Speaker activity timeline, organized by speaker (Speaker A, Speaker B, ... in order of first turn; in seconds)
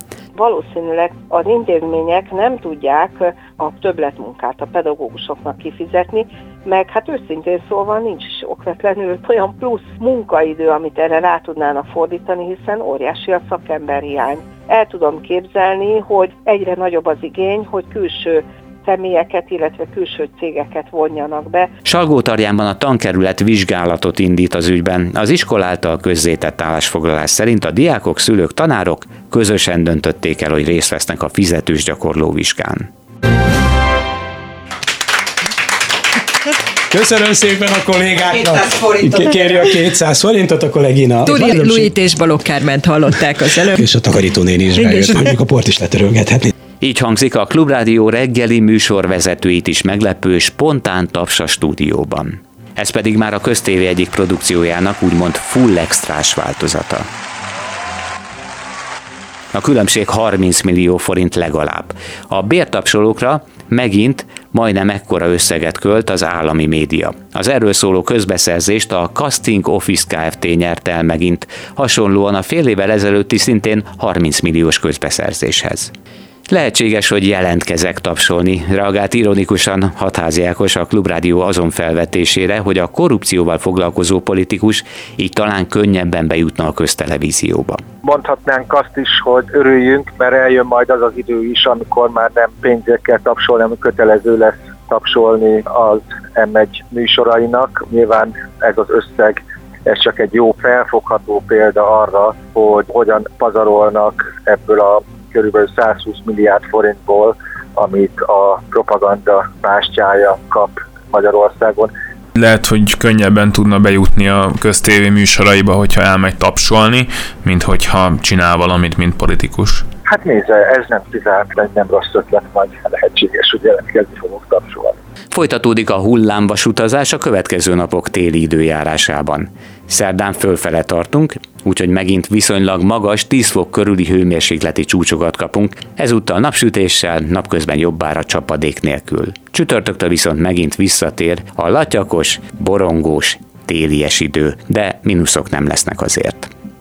Speaker A: 0.3-21.7
Speaker B: 21.8-32.9, 46.8-57.0, 59.5-75.9, 76.5-87.8, 125.3-146.5
Speaker C: 36.9-42.0, 43.5-46.5
Speaker D: 41.2-43.8, 44.8-45.2
Speaker E: 88.0-111.9, 120.1-125.0
Speaker F: 112.3-119.8